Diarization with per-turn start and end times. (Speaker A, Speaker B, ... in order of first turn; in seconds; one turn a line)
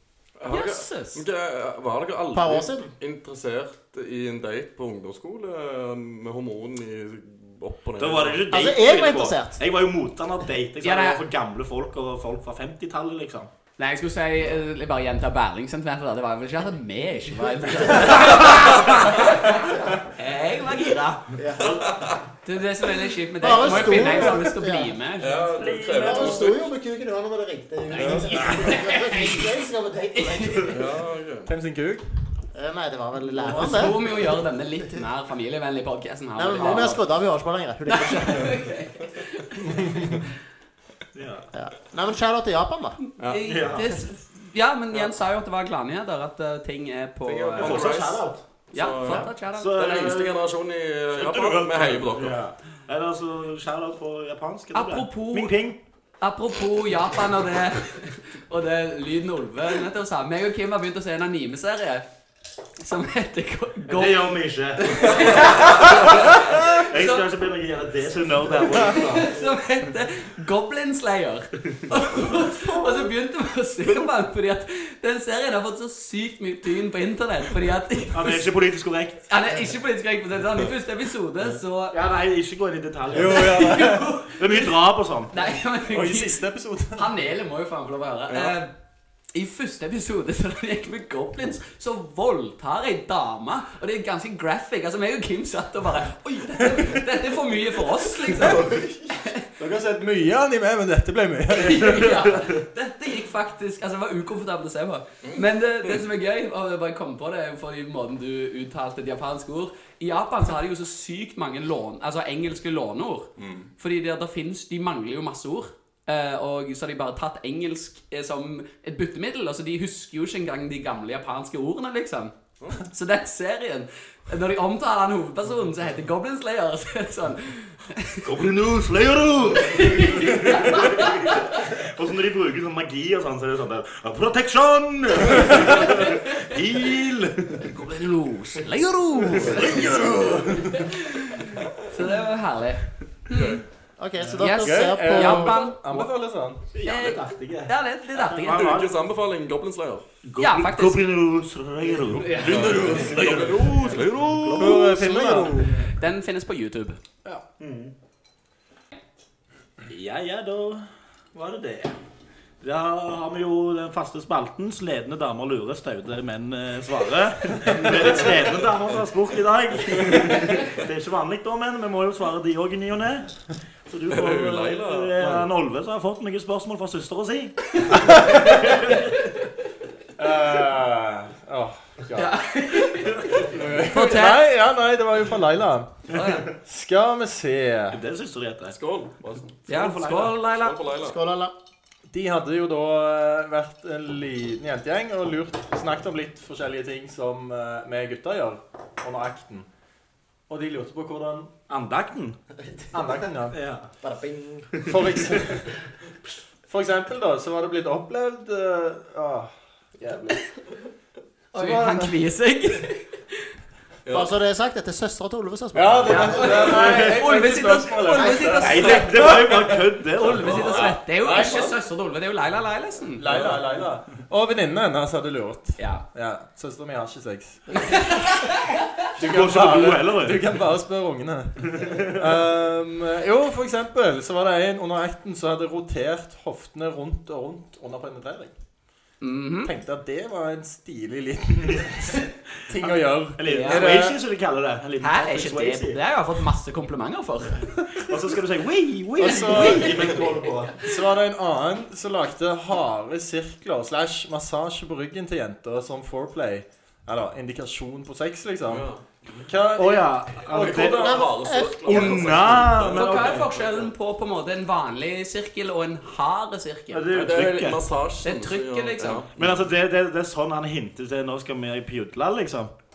Speaker A: 0.4-8.4
Speaker B: 0.5-1.2
Speaker C: 2.3-2.9
Speaker D: 8.0-13.5
Speaker C: 8.5-9.6
Speaker B: 10.8-11.2
Speaker B: 13.8-21.2
Speaker C: 21.3-21.9
Speaker A: 21.6-22.2
Speaker B: 22.4-25.6
Speaker C: 23.4-24.9
Speaker A: 25.2-26.7
Speaker D: 25.6-26.5
Speaker C: 26.0-30.8
Speaker B: 28.0-29.6
Speaker B: 30.1-30.8
Speaker A: 30.7-31.5
Speaker E: 31.4-32.1
Speaker C: 32.5-34.0
Speaker E: 33.4-33.9
Speaker B: 33.5-37.0
Speaker C: 36.4-38.7
Speaker B: 37.9-40.2
Speaker E: 39.7-40.1
Speaker D: 41.1-41.5
Speaker C: 41.5-43.0
Speaker B: 43.2-47.9
Speaker D: 43.4-43.9
Speaker A: 47.2-52.4
Speaker D: 47.6-48.4
Speaker B: 48.7-49.7
Speaker D: 49.5-50.4
Speaker D: 51.1-55.8
Speaker B: 54.7-55.5
Speaker B: 56.2-62.0
Speaker B: 62.8-67.2
Speaker D: 63.9-69.5
Speaker A: 65.8-66.0
Speaker B: 68.8-78.4
Speaker D: 71.9-73.1
Speaker D: 78.1-79.2
Speaker B: 79.3-82.0
Speaker D: 81.9-85.4
Speaker E: 83.1-84.2
Speaker B: 83.3-84.7
Speaker B: 85.3-88.7
Speaker E: 85.9-87.1
Speaker A: 88.3-88.5
Speaker B: 89.3-99.5
Speaker A: 98.4-98.9
Speaker E: 98.4-98.9
Speaker E: 99.6-102.2
Speaker B: 101.5-122.3
Speaker A: 105.2-106.0
Speaker A: 113.4-113.7
Speaker B: 122.9-128.3
Speaker D: 128.2-137.7
Speaker B: 129.6-131.4
Speaker B: 135.8-136.1
Speaker B: 137.6-143.6
Speaker D: 139.3-140.0
Speaker E: 139.6-140.9
Speaker A: 143.3-143.6
Speaker C: 144.0-145.6
Speaker B: 144.4-146.1
Speaker E: 144.4-146.6
Speaker D: 146.7-148.9
Speaker B: 146.8-148.8
Speaker A: 148.4-150.0
Speaker D: 150.2-155.7
Speaker B: 150.4-151.1
Speaker B: 152.2-152.7
Speaker A: 152.4-154.8
Speaker E: 154.6-155.9
Speaker B: 155.1-157.0
Speaker D: 157.6-157.9
Speaker D: 159.9-161.9
Speaker D: 162.6-179.1
Speaker A: 174.1-175.4
Speaker B: 177.8-179.4
Speaker E: 178.2-178.4
Speaker E: 180.2-182.3
Speaker B: 182.1-184.4
Speaker E: 182.9-185.9
Speaker B: 186.1-186.5
Speaker E: 186.6-188.0
Speaker D: 187.9-188.8
Speaker A: 188.7-189.6
Speaker D: 189.7-190.4
Speaker B: 189.7-190.8
Speaker A: 190.5-191.2
Speaker C: 190.9-191.5
Speaker E: 192.1-199.7
Speaker E: 200.5-201.5
Speaker D: 201.7-202.4
Speaker E: 202.9-203.6
Speaker D: 203.5-203.9
Speaker C: 204.0-204.8
Speaker D: 204.8-205.3
Speaker E: 204.9-205.7
Speaker E: 206.7-210.4
Speaker B: 211.5-213.4
Speaker E: 211.6-212.1
Speaker A: 214.1-214.3
Speaker C: 214.1-216.8
Speaker E: 215.7-219.8
Speaker B: 216.1-219.1
Speaker D: 216.5-217.2
Speaker C: 218.2-218.6
Speaker D: 218.4-220.9
Speaker A: 218.7-219.0
Speaker B: 220.2-223.2
Speaker E: 220.4-221.8
Speaker E: 223.2-228.3
Speaker D: 223.3-223.6
Speaker B: 225.8-226.0
Speaker B: 227.8-228.8
Speaker E: 229.2-238.5
Speaker D: 229.2-230.5
Speaker D: 231.7-232.2
Speaker B: 239.2-239.7
Speaker E: 239.6-244.2
Speaker D: 242.8-246.0
Speaker B: 243.4-243.9
Speaker B: 245.0-247.7
Speaker D: 248.0-250.9
Speaker C: 249.2-249.6
Speaker E: 249.2-250.1
Speaker B: 249.5-250.0
Speaker E: 250.8-258.9
Speaker A: 258.7-259.0
Speaker E: 259.4-260.9
Speaker D: 259.7-263.5
Speaker A: 260.5-263.8
Speaker C: 260.7-262.4
Speaker B: 262.8-267.1
Speaker D: 266.9-267.8
Speaker A: 267.1-269.6
Speaker B: 268.2-269.2
Speaker D: 269.4-272.7